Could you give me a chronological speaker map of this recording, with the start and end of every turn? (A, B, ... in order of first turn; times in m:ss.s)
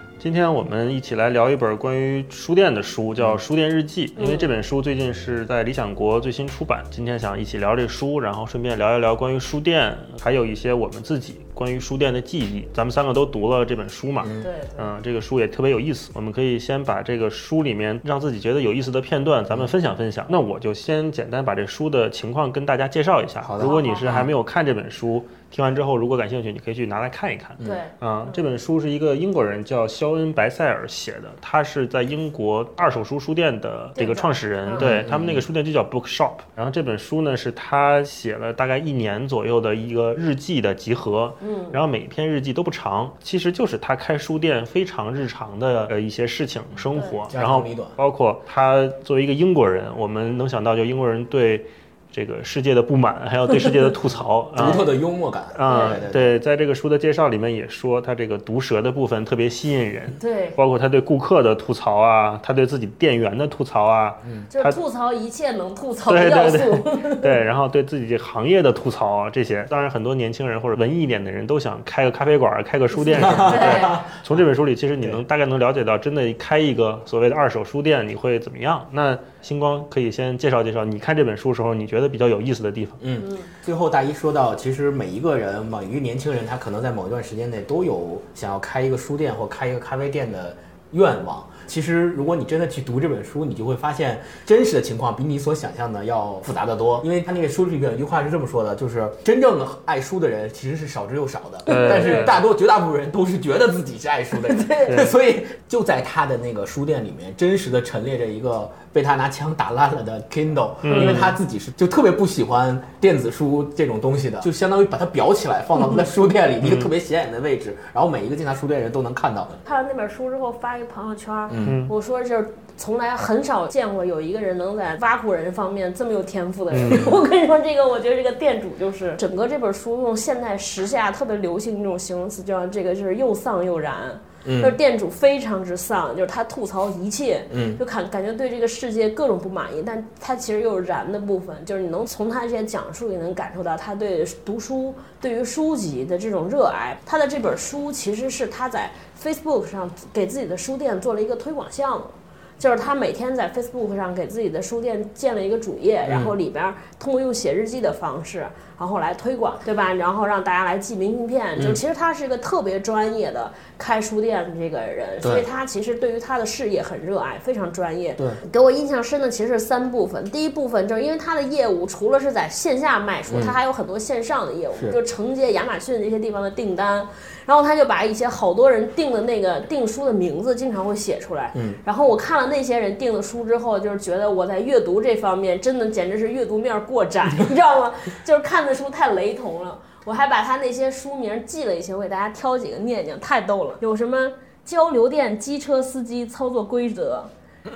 0:00.2-0:54.9 A
0:04.2-0:04.5 B
0:14.2-0:14.5 C
0:14.4-0:14.9 B
0:23.4-0:24.3 C
0:23.6-0:24.2 B
0:27.6-0:28.4 B
0:34.0-0:34.9 B
0:34.8-0:35.5 C
0:41.4-0:41.8 B
0:47.0-0:47.2 B
0:47.3-0:48.0 C
0:54.6-0:56.4 C
0:55.5-1:04.8 A
0:55.7-0:56.0 B
1:00.2-1:00.6 B
1:04.5-1:07.3 B
1:06.1-1:23.0 A
1:12.9-1:14.0 B
1:13.1-1:14.4 C
1:23.0-1:59.6 C
1:23.2-1:23.5 B
1:41.7-1:42.4 B
1:41.7-1:42.4 A
1:44.4-1:45.1 B
1:44.8-1:45.1 A
1:50.8-1:51.4 A
1:50.9-1:51.3 B
1:56.6-1:56.9 A
1:59.6-3:17.3 B
2:01.5-2:01.8 C
2:01.6-2:01.9 A
2:06.7-2:07.2 A
2:14.4-2:14.8 C
2:17.5-2:17.8 C
2:36.0-2:36.3 C
2:41.6-2:41.8 C
2:45.2-2:45.5 C
2:53.3-2:53.6 C
3:01.5-3:01.8 C